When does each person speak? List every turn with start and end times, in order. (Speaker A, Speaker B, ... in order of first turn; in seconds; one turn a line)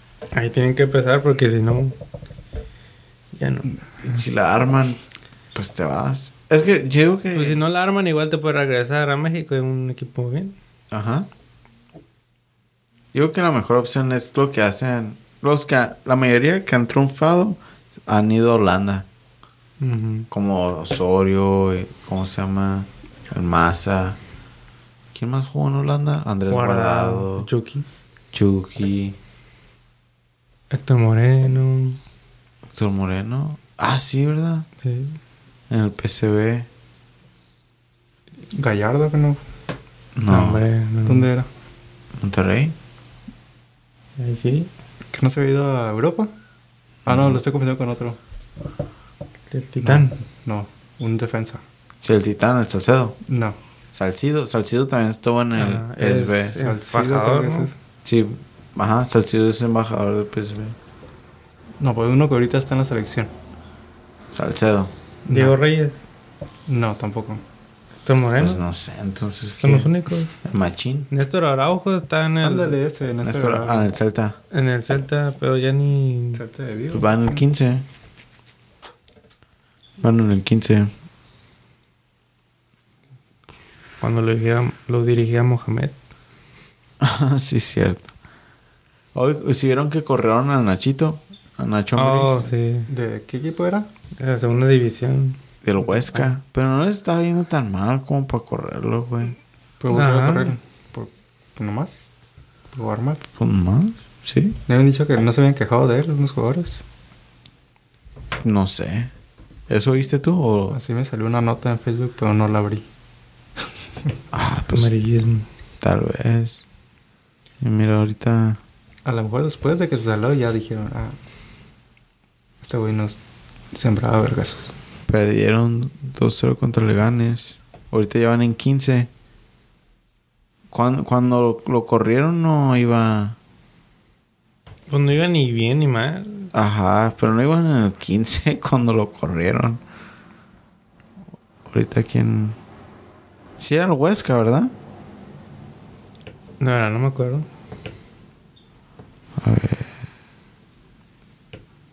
Speaker A: 0.3-1.9
Speaker A: 3.3-3.7
Speaker B: 4.0-5.0
Speaker B: 5.5-7.6
Speaker A: 7.3-10.6
Speaker B: 10.9-11.3
Speaker B: 13.1-19.1
Speaker A: 19.8-20.3
Speaker B: 20.3-24.2
Speaker B: 25.1-27.5
Speaker A: 26.5-27.9
Speaker B: 28.3-29.2
Speaker A: 30.7-32.0
Speaker B: 32.7-34.7
Speaker A: 34.8-35.2
Speaker B: 35.7-36.7
Speaker C: 38.5-39.4
Speaker B: 40.1-40.6
Speaker A: 40.3-41.3
Speaker C: 41.0-41.5
Speaker B: 42.2-42.7
Speaker A: 44.2-44.7
Speaker C: 45.1-46.3
Speaker B: 47.0-47.4
Speaker C: 47.0-48.2
Speaker A: 49.5-50.1
Speaker C: 49.8-51.6
Speaker B: 52.0-53.2
Speaker C: 53.3-53.5
Speaker B: 53.9-56.5
Speaker A: 55.5-57.7
Speaker C: 56.6-57.7
Speaker B: 58.0-60.8
Speaker C: 61.8-63.3
Speaker B: 64.3-64.9
Speaker C: 65.2-65.5
Speaker A: 65.3-66.0
Speaker C: 66.7-67.4
Speaker A: 68.0-68.6
Speaker B: 68.4-69.9
Speaker A: 69.6-70.4
Speaker B: 70.4-71.1
Speaker A: 71.1-72.7
Speaker C: 72.4-73.9
Speaker B: 73.2-74.4
Speaker A: 74.5-76.4
Speaker C: 76.3-77.4
Speaker B: 76.9-77.8
Speaker B: 80.0-80.9
Speaker A: 84.0-85.9
Speaker B: 87.0-88.1
Speaker B: 89.1-92.5
Speaker A: 92.0-92.9
Speaker C: 92.9-93.9
Speaker A: 94.2-95.4
Speaker B: 95.6-99.4
Speaker C: 99.8-102.1
Speaker A: 99.9-100.5
Speaker C: 102.7-103.2
Speaker B: 103.3-104.6
Speaker C: 104.7-106.8
Speaker B: 108.4-109.1
Speaker B: 109.7-110.8
Speaker C: 110.7-112.9
Speaker B: 114.3-114.9
Speaker A: 114.7-115.5
Speaker B: 115.8-116.6
Speaker B: 117.6-118.6
Speaker C: 119.0-121.2
Speaker C: 122.6-123.2
Speaker C: 123.7-124.7
Speaker B: 125.1-129.1
Speaker B: 130.7-133.4
Speaker A: 134.9-136.5
Speaker B: 136.5-139.8
Speaker B: 141.7-142.6
Speaker B: 143.6-144.7
Speaker A: 146.6-147.5
Speaker B: 149.4-149.9